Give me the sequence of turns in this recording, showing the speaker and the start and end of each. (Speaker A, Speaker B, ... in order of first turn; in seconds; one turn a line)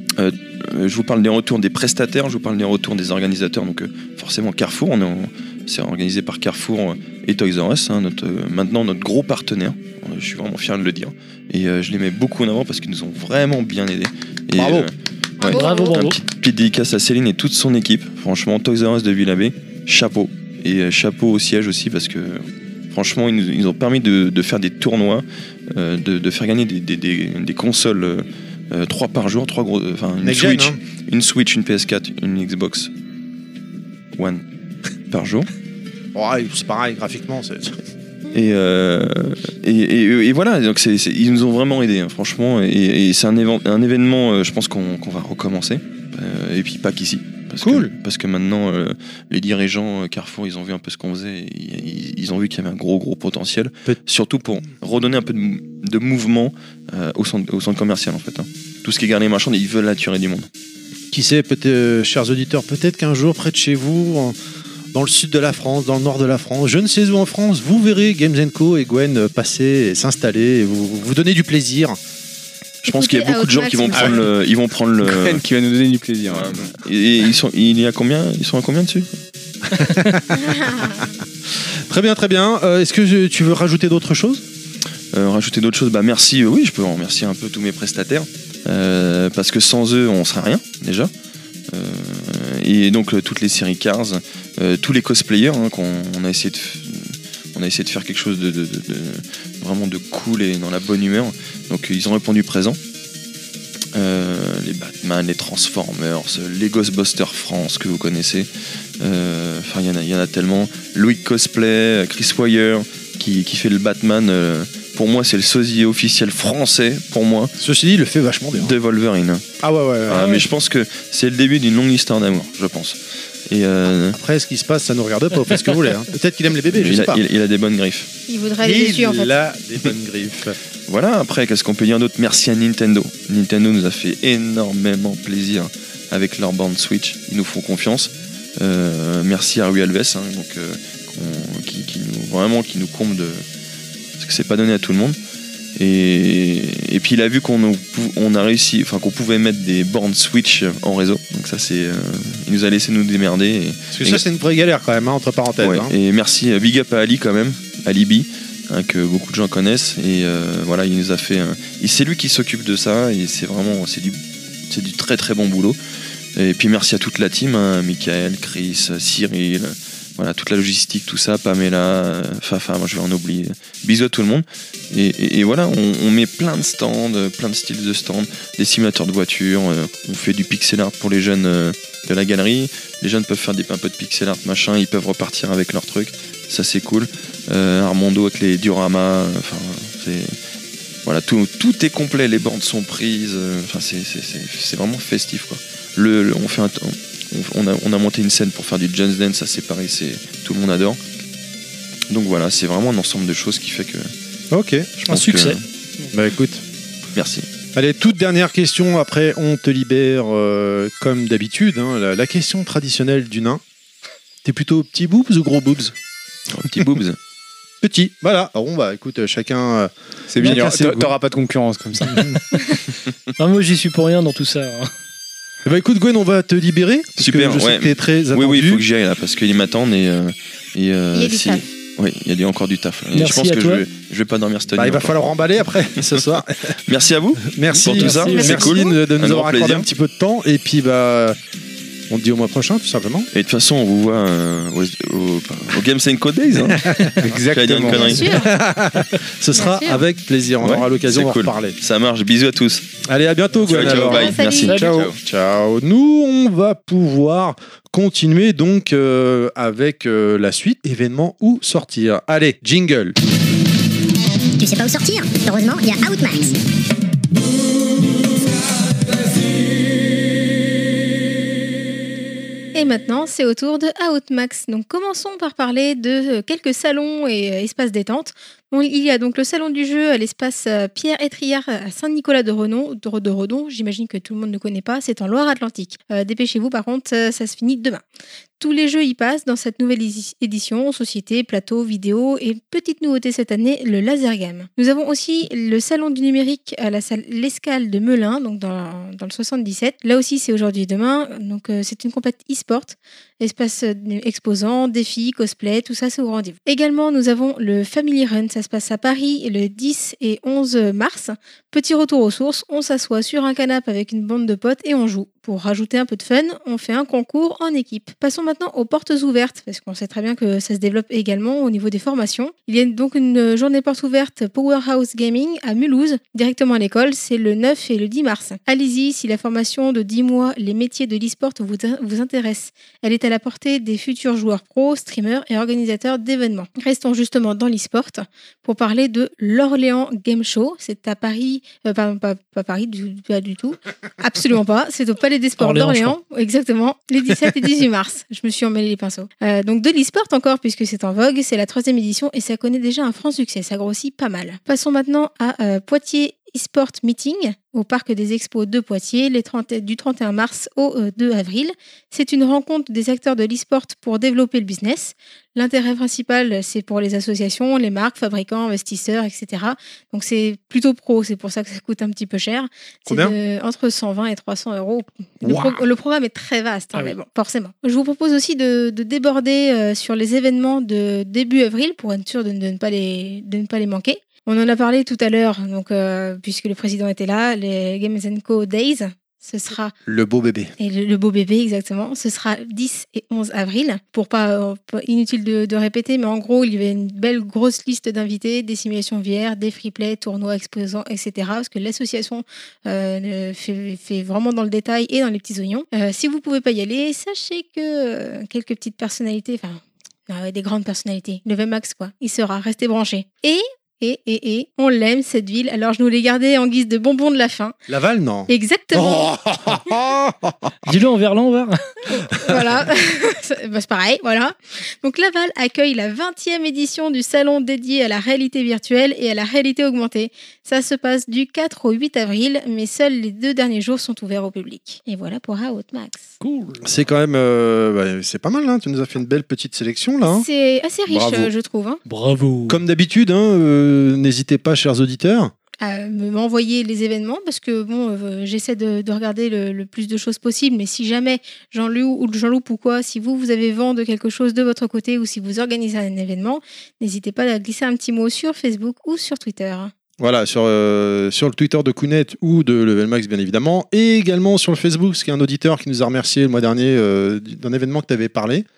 Speaker A: 0.2-32.9
Speaker B: 14.5-14.9
Speaker C: 15.4-16.0
Speaker D: 15.5-16.2
Speaker B: 30.2-30.8
Speaker A: 34.1-34.4
Speaker A: 35.1-35.5
Speaker B: 36.1-37.8
Speaker A: 38.3-60.5
Speaker B: 47.6-47.9
Speaker B: 61.1-64.4
Speaker B: 64.9-72.0
Speaker A: 72.8-75.4
Speaker C: 72.9-74.2
Speaker E: 73.9-74.2
Speaker E: 75.0-76.6
Speaker A: 76.3-79.1
Speaker C: 80.3-81.1
Speaker B: 81.7-84.4
Speaker A: 85.1-91.1
Speaker A: 91.7-102.8
Speaker A: 103.9-108.5
Speaker A: 109.0-117.5
Speaker B: 117.6-118.8
Speaker A: 118.5-119.5
Speaker B: 119.6-120.5
Speaker A: 120.1-124.2
Speaker B: 124.1-127.2
Speaker A: 126.7-128.1
Speaker C: 128.3-129.3
Speaker B: 128.6-130.6
Speaker A: 130.9-143.4
Speaker A: 144.2-145.2
Speaker A: 145.8-154.2
Speaker B: 153.9-155.9
Speaker A: 155.6-165.8
Speaker A: 166.4-190.4
Speaker A: 191.0-201.0
Speaker A: 202.1-204.1
Speaker B: 204.5-205.1
Speaker A: 205.0-205.6
Speaker D: 205.1-206.1
Speaker B: 206.1-206.6
Speaker A: 207.1-207.5
Speaker B: 207.8-213.6
Speaker B: 214.4-215.9
Speaker A: 216.5-217.2
Speaker B: 217.8-221.1
Speaker E: 220.3-222.2
Speaker D: 222.1-222.8
Speaker D: 223.4-224.9
Speaker B: 225.6-228.8
Speaker A: 227.2-235.3
Speaker C: 231.1-231.7
Speaker D: 233.1-233.8
Speaker B: 234.7-236.8
Speaker A: 236.1-239.9
Speaker B: 237.4-241.4
Speaker D: 237.9-238.6
Speaker C: 238.0-239.0
Speaker B: 242.1-243.3
Speaker A: 243.3-248.4
Speaker B: 246.6-251.8
Speaker E: 247.2-248.1
Speaker C: 247.9-248.5
Speaker C: 249.5-250.0
Speaker A: 250.6-252.9
Speaker B: 253.1-263.2
Speaker A: 253.6-255.2
Speaker C: 253.8-255.0
Speaker D: 254.7-255.0
Speaker F: 264.6-266.6
Speaker C: 272.7-288.0
Speaker C: 288.6-389.9
Speaker D: 345.6-346.2
Speaker B: 373.1-373.3
Speaker B: 375.4-375.8
Speaker B: 390.1-390.7
Speaker C: 390.8-417.8
Speaker B: 417.9-420.9
Speaker C: 418.5-419.4
Speaker D: 420.8-421.8
Speaker C: 422.1-436.3
Speaker D: 436.4-436.8
Speaker B: 436.8-440.5
Speaker C: 440.2-442.0
Speaker B: 441.1-441.4
Speaker D: 442.1-442.8
Speaker B: 442.7-445.5
Speaker C: 445.8-459.9
Speaker B: 460.2-468.6